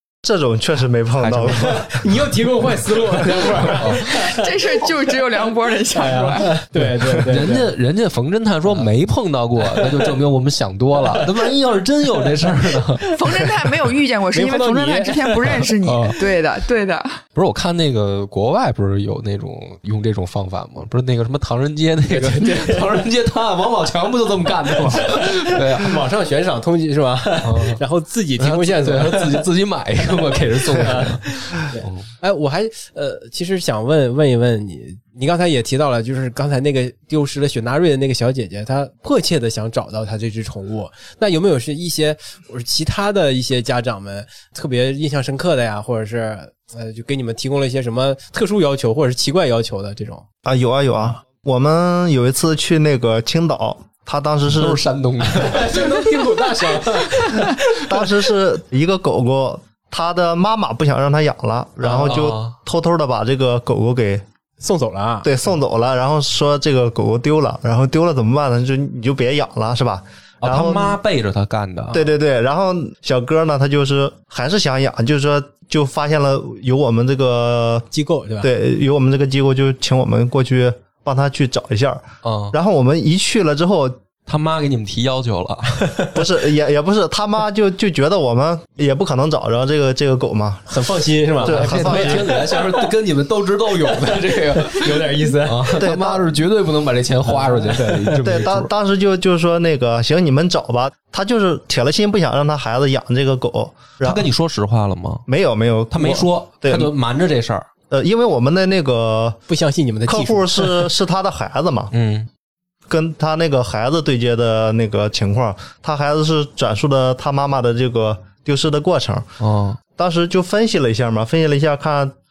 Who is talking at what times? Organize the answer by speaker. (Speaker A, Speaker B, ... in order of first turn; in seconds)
Speaker A: 0.2-1.9, 50.4-54.8, 57.7-64.2, 65.2-71.0, 71.9-77.9, 78.4-84.0, 86.1-90.7, 91.4-92.3, 95.7-96.3, 98.2-104.3, 105.3-106.9, 107.9-109.4, 110.1-111.9, 112.9-119.3, 120.0-122.1
Speaker B: 1.2-1.9, 3.7-4.3, 6.8-13.5, 15.8-16.1, 17.3-26.0, 27.4-27.8, 28.4-32.0, 54.5-57.5, 61.9-62.6, 70.4-72.0, 82.2-82.5, 84.3-86.0, 91.4-98.7, 104.0-105.2, 105.9-107.7, 111.9-112.3, 119.4-119.8
Speaker C: 1.5-4.5, 5.9-7.7, 9.6-10.1, 12.4-13.1, 14.3-16.1, 22.1-23.0, 24.7-29.4, 30.3-50.2, 55.2-57.6, 61.8-62.1, 64.6-65.3, 77.9-78.5, 85.8-86.1, 90.7-92.9, 93.9-95.8, 97.2-98.3, 109.5-110.9
Speaker D: 4.0-6.5, 13.1-17.2